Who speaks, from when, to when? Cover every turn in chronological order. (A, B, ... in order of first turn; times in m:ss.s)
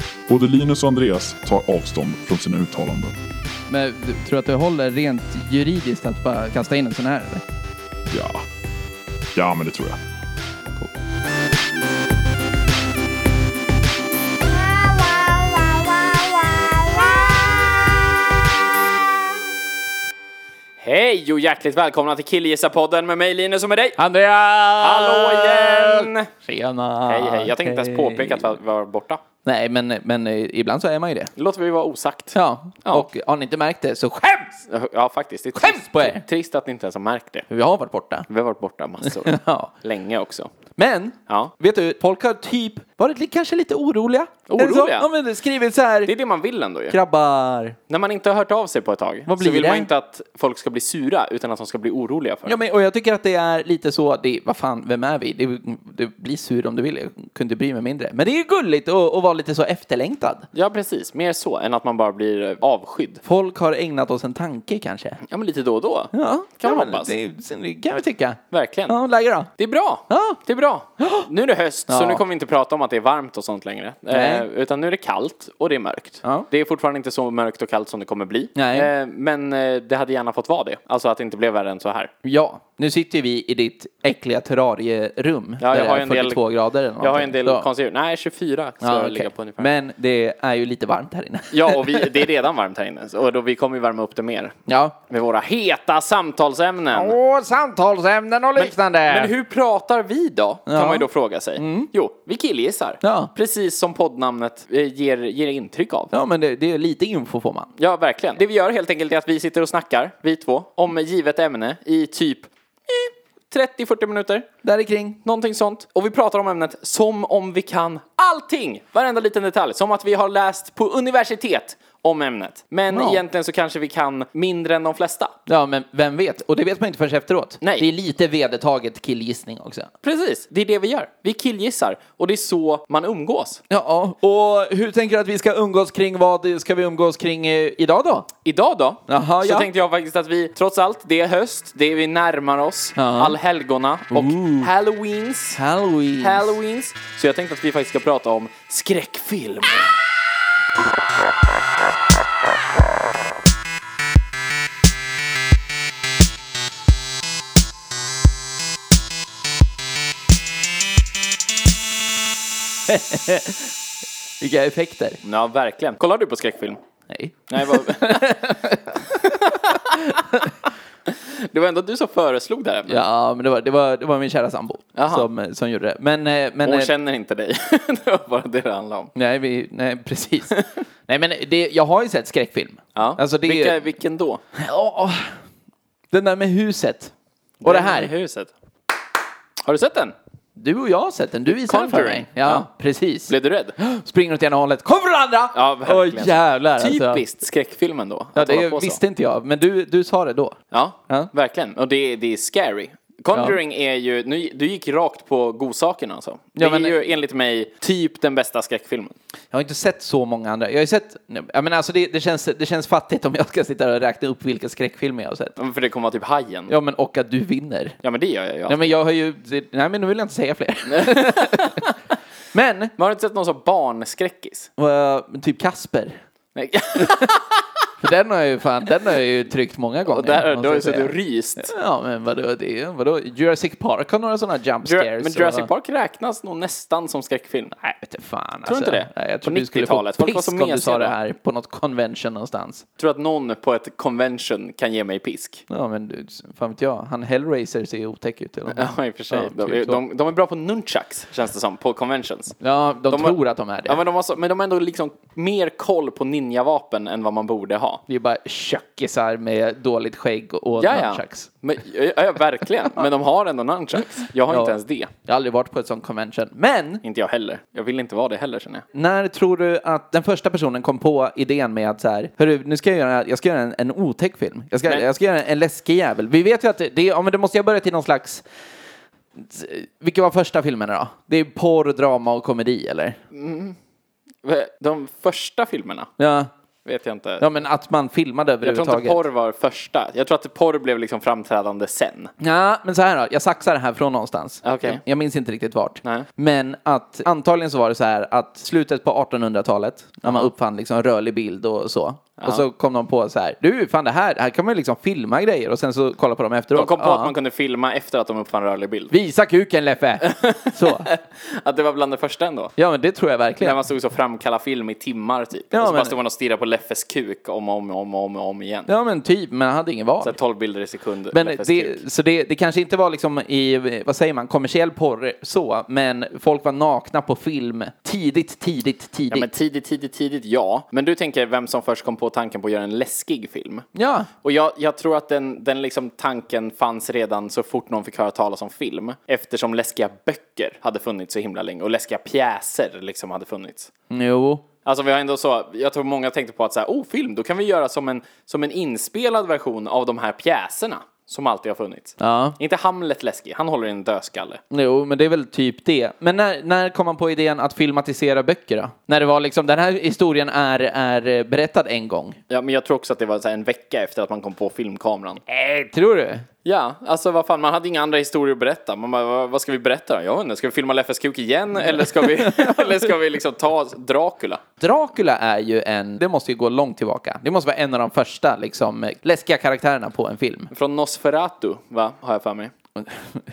0:00.3-0:03.2 A
0:03.7-0:07.4 B
0:08.1-0:08.4 A
0:09.4-0:10.0 A
0:20.8-0:24.0 C
0:24.0-0:28.5 B
0:24.8-0:26.3 C
0:27.1-0:29.2 C
0:29.4-0:31.3 B
0:31.4-0:33.1 C
0:32.3-0:34.6 B
0:34.7-0:37.5 C
0:35.6-0:36.2 B
0:37.5-0:38.3 B
0:38.3-0:40.5 C
0:39.1-0:39.7 B
0:40.8-0:46.1 B
0:41.3-0:41.5 C
0:44.5-0:45.1 C
0:46.1-0:47.0 C
0:46.9-0:47.8 B
0:47.9-0:52.6 C
0:49.3-0:49.9 B
0:52.5-1:00.5 B
1:00.5-1:03.2 C
1:03.2-1:05.2 B
1:05.3-1:07.1 C
1:06.1-1:09.5 B
1:08.5-1:09.0 C
1:09.6-1:22.1 C
1:10.1-1:10.4 B
1:11.0-1:11.3 B
1:11.9-1:12.2 B
1:14.1-1:14.4 B
1:18.6-1:18.9 B
1:22.2-1:27.7 B
1:25.6-1:26.4 C
1:27.0-1:29.7 C
1:28.8-1:32.2 B
1:31.5-1:37.2 C
1:34.7-1:35.0 B
1:36.9-1:39.3 B
1:38.6-1:46.1 C
1:40.7-1:41.1 B
1:41.6-1:41.9 B
1:43.0-1:43.3 B
1:46.1-1:47.7 B
1:47.8-1:54.5 C
1:54.6-1:55.2 B
1:55.2-2:05.3 C
2:02.9-2:03.2 B
2:05.5-2:09.9 B
2:07.6-2:07.9 C
2:10.0-2:13.6 C
2:13.7-2:18.3 B
2:18.4-2:25.6 C
2:19.1-2:19.7 B
2:23.0-2:23.4 B
2:24.1-2:24.7 B
2:25.6-2:26.5 B
2:26.2-2:29.9 C
2:42.9-2:43.7 B
2:44.4-2:45.2 B
2:45.2-2:46.8 C
2:47.1-2:50.5 B
2:47.5-2:48.3 C
2:49.2-2:49.7 C
2:51.1-2:53.0 C
2:52.9-2:56.9 B
2:55.0-2:55.3 C
2:56.6-2:59.1 C
2:59.2-3:03.8 B
3:03.0-3:04.4 C
3:04.6-3:05.3 B
3:06.1-3:07.1 B
3:07.6-3:08.5 C
3:07.6-3:08.1 B
3:09.6-3:10.2 C
3:10.6-3:17.2 B
3:11.5-3:12.7 C
3:13.3-3:13.8 C
3:15.5-3:19.0 C
3:18.4-3:20.6 B
3:20.7-3:29.2 C
3:26.6-3:27.0 B
3:29.5-3:35.5 B
3:35.6-3:36.7 C
3:36.7-3:38.0 B
3:38.0-3:38.8 C
3:38.7-3:41.9 B
3:40.9-3:41.8 C
3:42.5-3:42.9 B
3:43.0-3:44.7 C
3:44.8-3:46.2 B
3:46.6-3:47.6 C
3:48.0-3:55.7 B
3:50.1-3:51.7 C
3:54.8-3:57.8 C
3:57.8-4:02.8 B
3:58.6-4:01.2 C
4:03.0-4:05.6 C
4:05.7-4:10.0 B
4:08.7-4:18.0 C
4:12.6-4:14.0 B
4:18.1-4:21.5 B
4:20.8-4:25.1 C
4:24.5-4:27.0 B
4:27.0-4:28.9 C
4:28.9-4:38.4 B
4:39.4-4:43.2 B
4:43.3-4:43.8 C
4:44.4-4:46.1 C
4:46.2-4:46.5 B
4:46.9-4:47.4 C
4:47.4-4:49.2 B
4:48.6-4:52.3 C
4:52.4-5:07.3 B
4:54.6-4:55.0 C
5:00.2-5:00.5 C
5:02.4-5:02.6 C
5:06.8-5:09.1 C
5:09.1-5:11.1 B
5:10.2-5:12.7 C
5:12.8-5:13.8 B
5:13.6-5:18.9 C
5:15.7-5:16.1 B
5:18.9-5:20.4 B
5:20.2-5:22.0 C
5:21.3-5:29.5 B
5:29.3-5:33.9 C
5:34.0-5:34.3 B
5:34.4-5:43.9 C
5:44.1-5:44.7 B
5:44.8-5:54.6 C
5:52.2-5:52.6 B
5:54.7-6:02.4 B
6:02.5-6:05.4 C
6:05.5-6:06.4 B
6:06.6-6:14.6 C
6:11.9-6:12.8 B
6:14.8-6:20.7 B
6:20.7-6:22.7 C
6:23.0-6:23.4 B